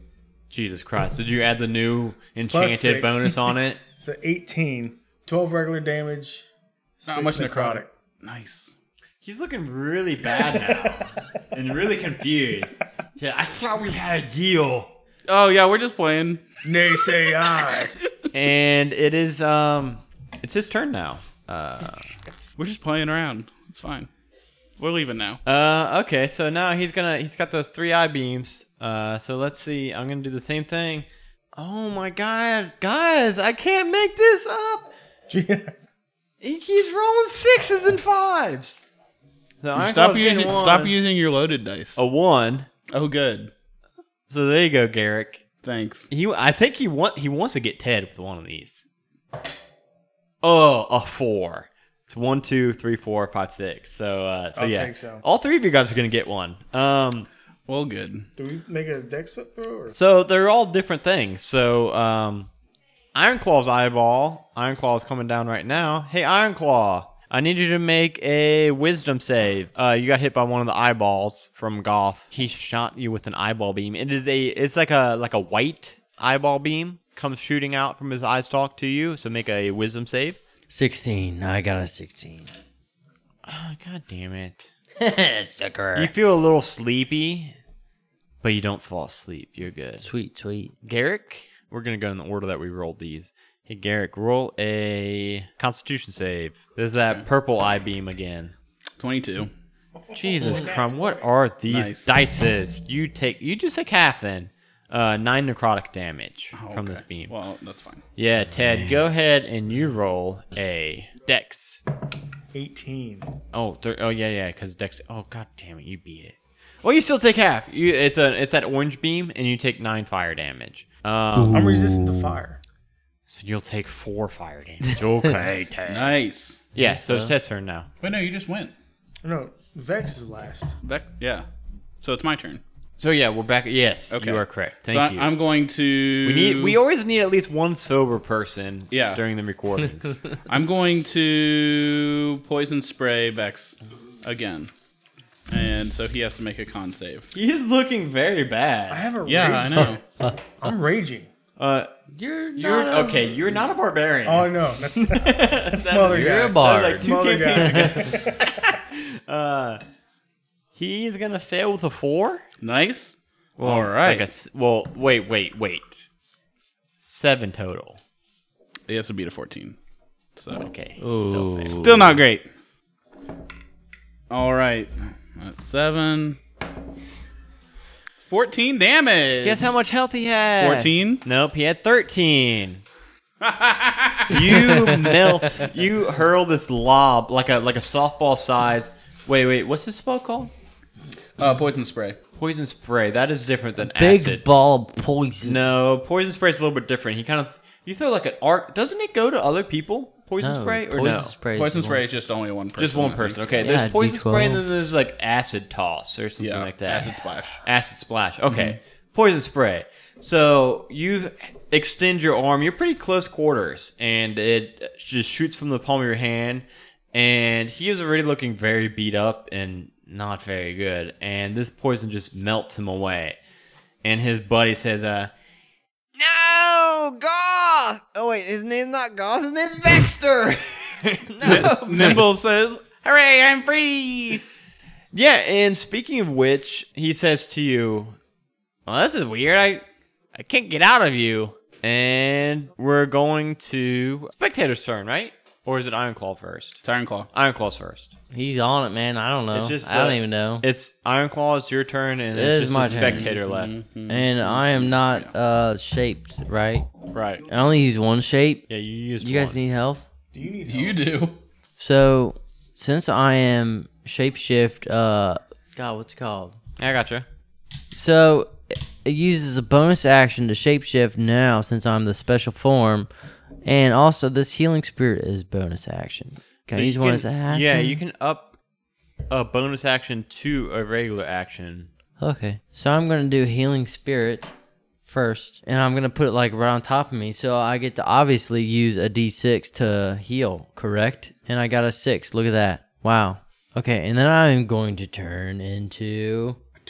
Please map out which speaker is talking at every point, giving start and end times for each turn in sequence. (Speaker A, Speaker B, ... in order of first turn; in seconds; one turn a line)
Speaker A: 0.5-3.8
Speaker B: 2.5-6.5
Speaker B: 7.0-7.9
Speaker C: 7.0-8.8
Speaker A: 9.2-14.9
Speaker B: 10.3-11.1
Speaker C: 15.3-16.4
Speaker B: 16.6-17.9
Speaker A: 18.3-22.1
Speaker C: 22.6-24.1
Speaker C: 24.8-25.4
Speaker A: 25.4-34.9
Speaker B: 35.3-35.8
Speaker A: 36.4-38.9
Speaker A: 39.6-41.0
Speaker C: 39.7-42.0
Speaker A: 42.0-42.7
Speaker C: 42.9-43.5
Speaker A: 44.3-45.4
Speaker C: 45.6-46.1
Speaker A: 46.1-48.8
Speaker A: 50.4-57.3
Speaker B: 54.5-55.2
Speaker C: 57.7-58.3
Speaker B: 58.4-59.9
Speaker A: 59.9-62.5
Speaker A: 63.1-80.4
Speaker D: 80.7-82.5
Speaker A: 83.4-84.7
Speaker D: 85.0-86.1
Speaker A: 86.0-87.5
Speaker A: 88.4-90.0
Speaker D: 90.0-90.7
Speaker A: 90.8-98.5
Speaker C: 99.0-99.5
Speaker B: 100.1-101.0
Speaker A: 100.1-107.3
Speaker C: 101.7-102.1
Speaker C: 106.5-108.0
Speaker A: 108.2-111.8
Speaker B: 112.5-113.3
Speaker A: 113.5-121.9
Speaker D: 121.4-122.1
Speaker B: 121.5-122.6
Speaker A: 123.2-126.2
Speaker C: 125.9-126.6
Speaker A: 126.7-127.9
Speaker D: 126.8-127.3
Speaker C: 128.0-128.7
Speaker B: 129.2-130.8
Speaker C: 130.8-131.4
Speaker C: 132.0-132.6
Speaker A: 133.0-135.3
Speaker C: 134.1-136.8
Speaker A: 136.2-140.4
Speaker C: 138.9-139.2
Speaker C: 140.4-144.7
Speaker C: 145.5-147.3
Speaker A: 147.3-149.6
Speaker B: 148.9-150.0
Speaker C: 149.2-150.0
Speaker B: 150.6-151.3
Speaker A: 151.6-151.9
Speaker D: 152.1-153.4
Speaker A: 152.6-159.8
Speaker B: 154.2-158.5
Speaker D: 156.1-158.0
Speaker A: 160.7-162.4
Speaker C: 162.6-164.3
Speaker A: 163.6-166.1
Speaker A: 167.0-168.0
Speaker C: 168.9-169.8
Speaker C: 170.3-170.7
Speaker A: 170.5-171.9
Speaker D: 171.0-172.2
Speaker C: 171.7-172.4
Speaker C: 174.3-176.4
Speaker C: 178.3-179.7
Speaker A: 179.4-182.8
Speaker C: 180.6-181.2
Speaker C: 183.4-184.9
Speaker A: 184.3-190.5
Speaker C: 191.4-192.2
Speaker A: 192.3-194.4
Speaker D: 193.9-195.6
Speaker A: 195.4-201.3
Speaker D: 200.4-202.0
Speaker C: 201.5-203.4
Speaker A: 202.8-223.4
Speaker D: 203.6-204.6
Speaker C: 206.4-207.6
Speaker C: 208.5-208.8
Speaker A: 224.0-225.3
Speaker A: 226.1-232.2
Speaker C: 231.4-233.6
Speaker A: 233.1-234.4
Speaker A: 235.1-238.2
Speaker A: 238.9-246.8
Speaker C: 246.8-247.3
Speaker A: 247.3-248.1
Speaker D: 248.3-250.6
Speaker A: 249.5-253.7
Speaker D: 252.3-253.3
Speaker C: 252.8-255.3
Speaker D: 254.1-256.9
Speaker A: 257.1-257.4
Speaker D: 257.5-258.7
Speaker A: 258.7-259.6
Speaker D: 259.2-260.1
Speaker B: 260.3-261.1
Speaker C: 260.6-261.4
Speaker D: 261.8-266.6
Speaker A: 266.8-267.2
Speaker D: 267.9-273.1
Speaker D: 273.6-278.0
Speaker A: 276.7-278.6
Speaker A: 279.3-281.9
Speaker D: 282.2-284.5
Speaker D: 285.0-296.6